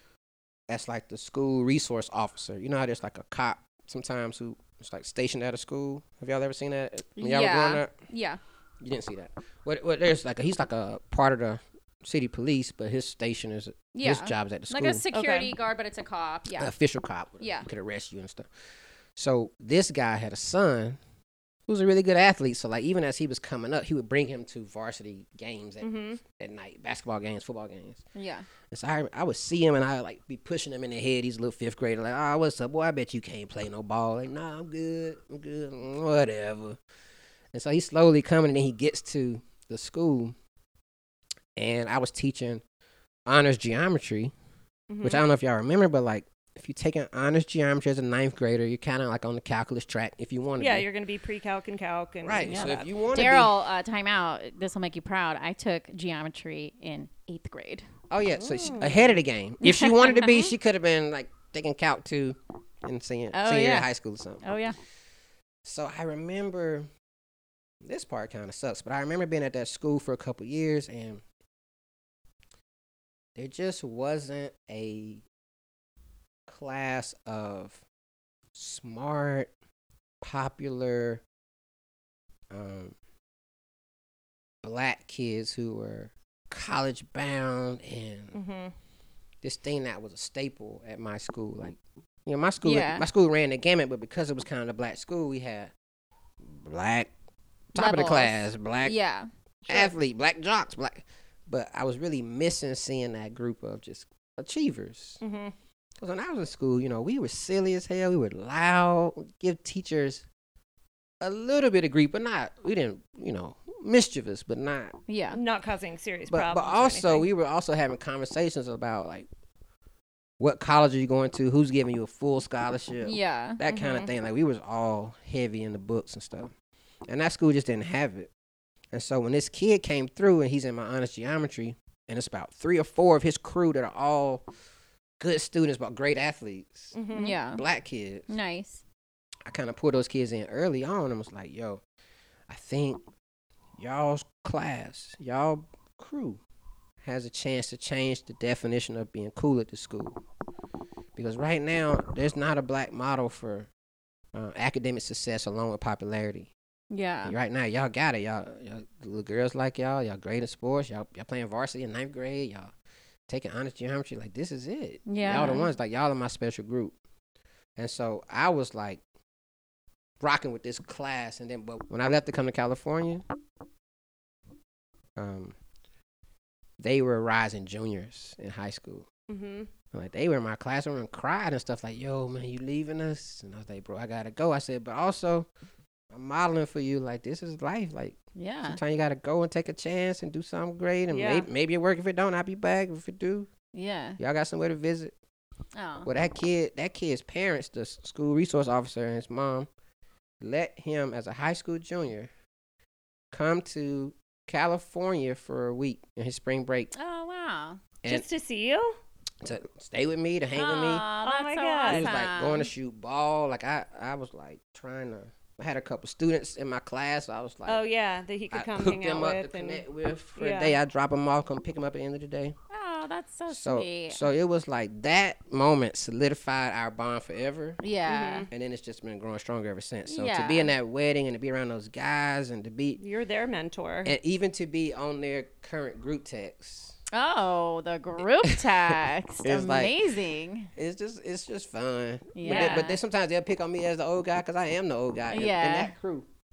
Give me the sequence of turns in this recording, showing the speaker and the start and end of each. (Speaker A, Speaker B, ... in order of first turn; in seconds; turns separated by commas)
Speaker A: 0.7-7.9, Speaker B: 7.2-8.4, Speaker A: 8.8-15.1, Speaker B: 13.9-16.7, Speaker C: 15.1-15.5, Speaker A: 16.5-18.5, Speaker B: 17.4-17.6, Speaker A: 19.1-21.0, Speaker A: 21.7-28.0, Speaker C: 25.8-26.2, Speaker B: 28.1-28.4, Speaker A: 28.7-36.8, Speaker A: 37.5-40.3, Speaker A: 41.5-42.6, Speaker A: 43.2-44.3, Speaker C: 44.9-45.2, Speaker A: 45.0-50.9, Speaker C: 50.6-52.9, Speaker A: 52.2-53.5, Speaker B: 52.5-57.8, Speaker A: 58.1-64.4, Speaker C: 58.4-59.2, Speaker B: 59.6-60.5, Speaker B: 63.3-63.9, Speaker B: 64.4-64.8, Speaker A: 65.6-66.9, Speaker A: 67.8-71.2, Speaker A: 73.3-75.2, Speaker A: 76.5-77.8, Speaker A: 78.5-79.5, Speaker A: 80.2-81.2, Speaker A: 82.5-83.0, Speaker A: 84.6-88.4, Speaker C: 88.3-88.7, Speaker A: 89.4-95.7, Speaker B: 92.6-93.0, Speaker A: 96.4-97.1, Speaker A: 97.7-98.9, Speaker B: 97.7-99.9, Speaker A: 99.7-105.2, Speaker C: 105.2-105.5, Speaker A: 106.0-110.2, Speaker A: 111.2-114.9, Speaker B: 115.1-115.4, Speaker C: 115.3-117.2, Speaker A: 116.3-119.3, Speaker A: 120.4-126.5, Speaker B: 123.0-123.6, Speaker C: 123.7-124.1, Speaker A: 127.1-128.3, Speaker A: 128.9-134.4, Speaker A: 135.2-136.9, Speaker C: 136.9-137.4, Speaker B: 137.1-137.6, Speaker A: 137.6-138.3, Speaker B: 138.3-138.8, Speaker A: 139.4-141.8, Speaker A: 142.5-143.0, Speaker A: 143.8-146.4, Speaker A: 147.0-150.2, Speaker A: 151.2-153.7, Speaker A: 154.3-156.5, Speaker B: 156.9-157.3, Speaker A: 157.2-162.7, Speaker A: 163.3-166.9, Speaker B: 165.1-165.7, Speaker A: 167.8-169.0, Speaker A: 170.2-173.2, Speaker A: 175.2-175.6, Speaker A: 176.8-179.1, Speaker C: 179.3-179.7, Speaker A: 179.9-185.5, Speaker A: 186.1-193.5, Speaker B: 188.4-188.8, Speaker C: 191.1-191.5, Speaker B: 193.7-194.2, Speaker A: 194.2-195.1, Speaker B: 195.7-196.1, Speaker A: 196.0-199.7, Speaker A: 200.4-202.3, Speaker A: 203.3-206.9, Speaker B: 206.9-207.8, Speaker C: 208.1-208.9, Speaker A: 209.4-211.1, Speaker B: 210.6-212.7, Speaker C: 211.2-212.1, Speaker A: 211.9-217.8, Speaker C: 217.7-219.8, Speaker A: 218.5-222.5, Speaker C: 220.4-220.8, Speaker B: 222.7-224.3, Speaker A: 223.5-227.8, Speaker B: 227.8-228.5, Speaker C: 228.1-228.5, Speaker A: 228.5-233.0, Speaker B: 230.1-230.7, Speaker C: 233.0-234.1, Speaker A: 234.0-237.0, Speaker B: 237.1-240.7, Speaker A: 239.4-239.9, Speaker A: 240.8-246.3, Speaker B: 242.3-243.0, Speaker C: 242.4-242.9, Speaker B: 245.3-245.9